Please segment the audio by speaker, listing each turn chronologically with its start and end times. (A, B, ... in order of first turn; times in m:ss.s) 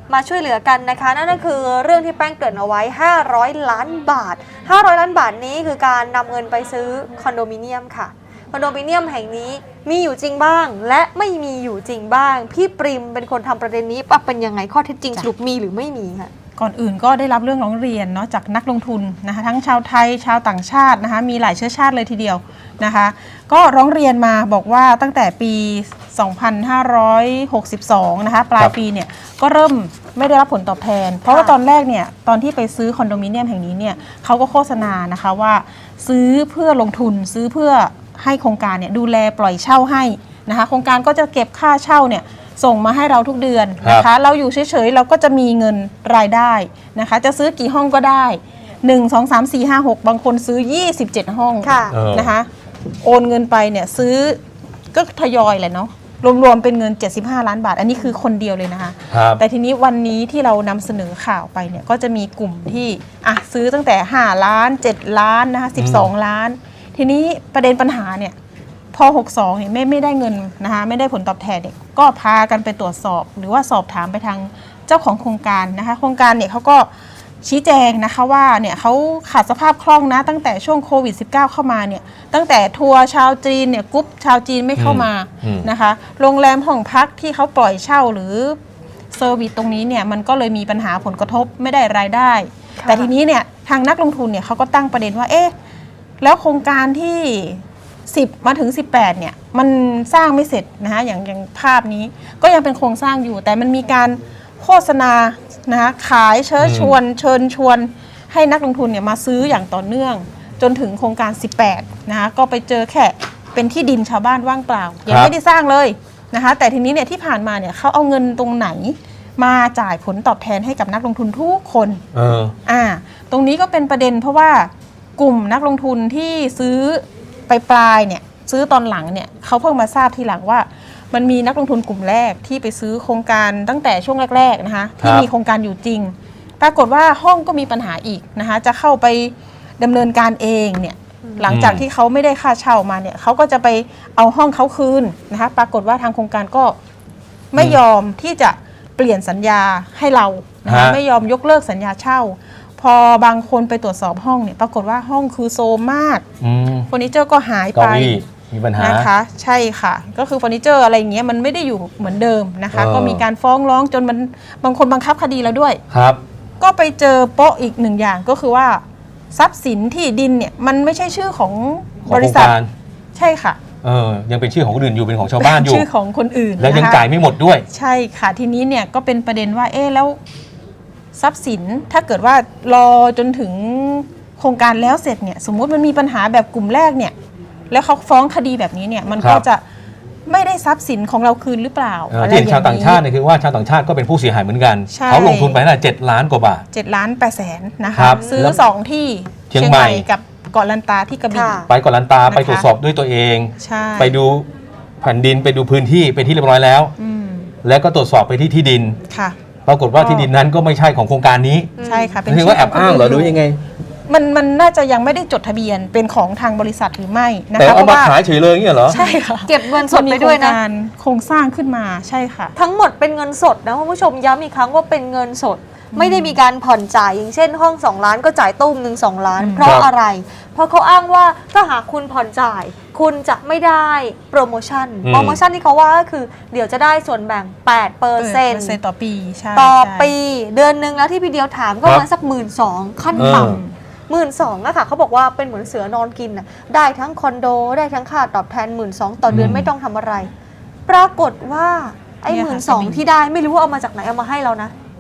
0:00.1-0:16.3 A
0:16.6-0:52.5 B
0:31.3-0:31.6 A
0:43.8-0:44.1 C
0:51.6-0:52.0 A
0:51.9-0:52.4 C
0:53.0-0:54.4 B
0:54.9-1:08.4 B
0:59.1-0:59.4 C
1:05.8-1:06.1 C
1:08.9-1:16.9 B
1:17.4-1:28.6 B
1:24.8-1:25.7 C
1:29.1-1:35.5 B
1:32.8-1:33.1 A
1:36.2-2:02.0 B
1:46.6-1:47.0 C
1:55.1-1:55.3 C
2:02.1-2:02.6 C
2:02.6-2:26.8 B
2:15.0-2:15.3 C
2:21.2-2:21.5 A
2:21.5-2:21.8 C
2:27.5-2:36.2 B
2:30.7-2:31.0 C
2:36.4-2:36.9 C
2:36.9-2:38.2 B
2:37.7-2:39.1 C
2:38.8-2:45.8 B
2:42.7-2:43.2 C
2:45.9-2:46.2 C
2:46.6-2:48.8 B
2:49.3-2:52.6 B
2:52.1-2:52.7 C
2:53.2-2:53.6 B
2:53.8-2:55.9 C
2:55.4-2:57.0 B
2:56.6-2:57.7 C
2:57.7-3:00.2 B
3:01.2-3:07.1 B
3:07.7-3:09.6 B
3:09.2-3:09.4 C
3:10.3-3:13.0 B
3:12.1-3:16.6 C
3:14.9-3:15.6 B
3:16.7-3:21.6 B
3:17.9-3:18.6 C
3:18.0-3:18.6 A
3:19.5-3:20.1 C
3:21.3-3:21.7 A
3:21.7-3:24.5 C
3:22.3-3:22.7 B
3:23.6-3:24.2 B
3:25.0-3:26.9 C
3:27.0-3:27.5 B
3:27.6-3:29.0 C
3:29.1-3:29.4 B
3:29.7-3:31.7 C
3:30.0-3:30.3 B
3:31.8-3:32.2 A
3:31.8-3:33.4 B
3:32.2-3:33.6 C
3:34.1-3:38.2 B
3:37.6-3:39.0 C
3:38.9-3:42.5 B
3:38.9-3:40.6 A
3:42.6-3:58.8 A
3:45.9-3:46.4 B
3:49.4-3:49.7 B
3:49.6-3:49.9 C
3:55.0-3:55.4 C
3:58.2-4:00.1 B
3:59.5-4:10.3 A
4:03.1-4:03.7 B
4:03.2-4:03.6 C
4:09.3-4:09.7 C
4:10.9-4:14.7 A
4:12.3-4:13.0 B